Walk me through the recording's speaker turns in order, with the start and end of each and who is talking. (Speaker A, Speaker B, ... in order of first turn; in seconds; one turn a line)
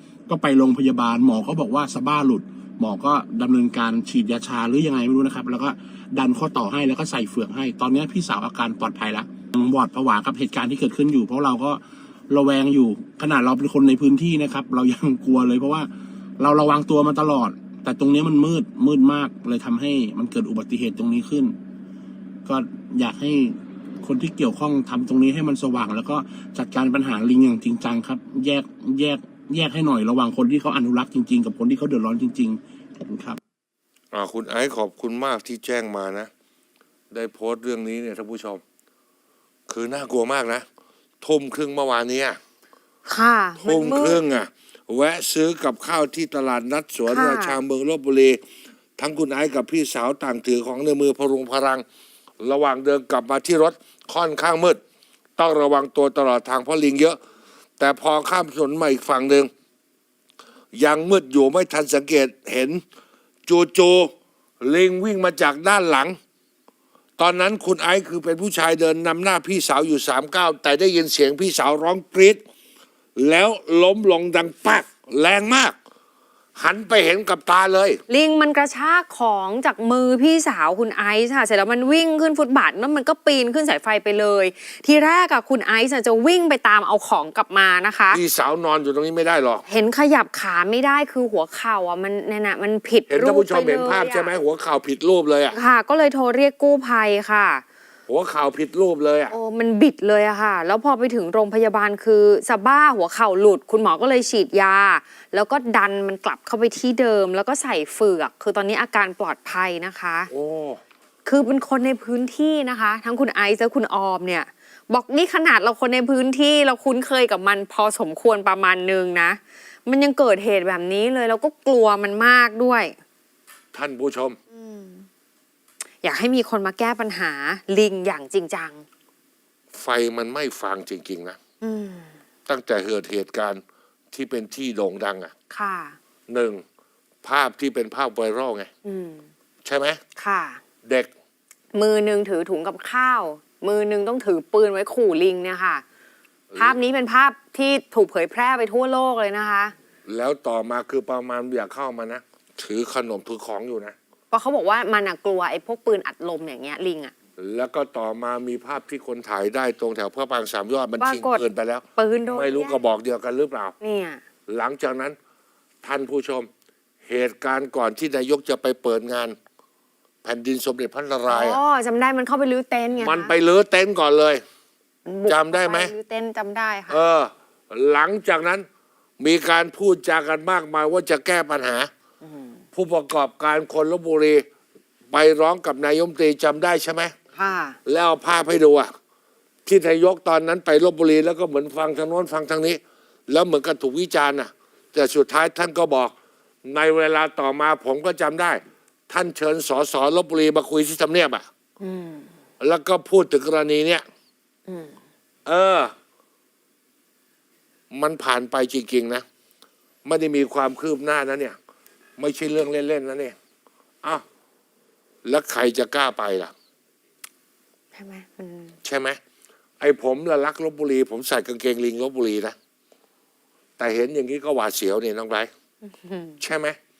Speaker A: 0.3-21.6
Speaker A: 22.4-33.4
Speaker B: 34.1-36.3
Speaker B: 37.1-38.6
Speaker B: 39.7-40.6
Speaker B: 41.2-42.4
Speaker C: 43.0-44.2
Speaker B: 43.6-48.4
Speaker C: 47.1-47.5
Speaker B: 49.0-51.8
Speaker B: 52.4-54.8
Speaker B: 55.4-57.2
Speaker B: 57.8-59.5
Speaker B: 60.7-62.8
Speaker B: 63.5-66.2
Speaker B: 67.2-72.4
Speaker B: 73.2-75.7
Speaker B: 76.6-78.0
Speaker C: 78.1-88.2
Speaker B: 88.1-89.6
Speaker C: 89.7-94.3
Speaker B: 93.1-95.6
Speaker C: 95.5-97.6
Speaker B: 98.1-99.3
Speaker C: 99.3-110.3
Speaker B: 110.3-110.8
Speaker C: 111.2-122.9
Speaker B: 123.7-124.4
Speaker C: 124.5-125.1
Speaker C: 126.0-128.8
Speaker B: 129.7-131.4
Speaker C: 131.6-132.1
Speaker B: 132.5-135.3
Speaker C: 135.5-135.9
Speaker B: 136.3-136.6
Speaker B: 137.2-138.7
Speaker C: 138.8-139.2
Speaker B: 139.6-140.0
Speaker C: 140.2-140.6
Speaker C: 141.7-145.8
Speaker B: 146.5-146.8
Speaker C: 146.6-149.7
Speaker B: 150.1-153.9
Speaker C: 154.3-157.1
Speaker B: 157.4-163.7
Speaker C: 161.0-161.4
Speaker C: 162.0-162.8
Speaker C: 163.8-164.2
Speaker B: 164.5-165.2
Speaker B: 165.8-166.5
Speaker B: 167.1-169.3
Speaker B: 170.2-171.6
Speaker C: 171.3-173.3
Speaker B: 173.0-174.4
Speaker C: 175.1-177.0
Speaker B: 175.3-175.9
Speaker B: 176.9-178.7
Speaker B: 179.2-181.9
Speaker C: 182.2-182.6
Speaker B: 182.7-184.4
Speaker B: 185.1-187.1
Speaker C: 187.3-187.8
Speaker B: 187.8-188.9
Speaker B: 189.7-201.5
Speaker C: 201.8-202.3
Speaker B: 202.6-204.0
Speaker C: 204.7-205.0
Speaker B: 205.4-205.9
Speaker B: 207.9-209.2
Speaker B: 210.0-211.6
Speaker B: 212.2-213.3
Speaker B: 215.2-216.5
Speaker C: 217.9-218.7
Speaker B: 218.8-219.2
Speaker B: 219.8-222.5
Speaker B: 223.8-225.5
Speaker C: 225.8-226.4
Speaker B: 226.4-226.8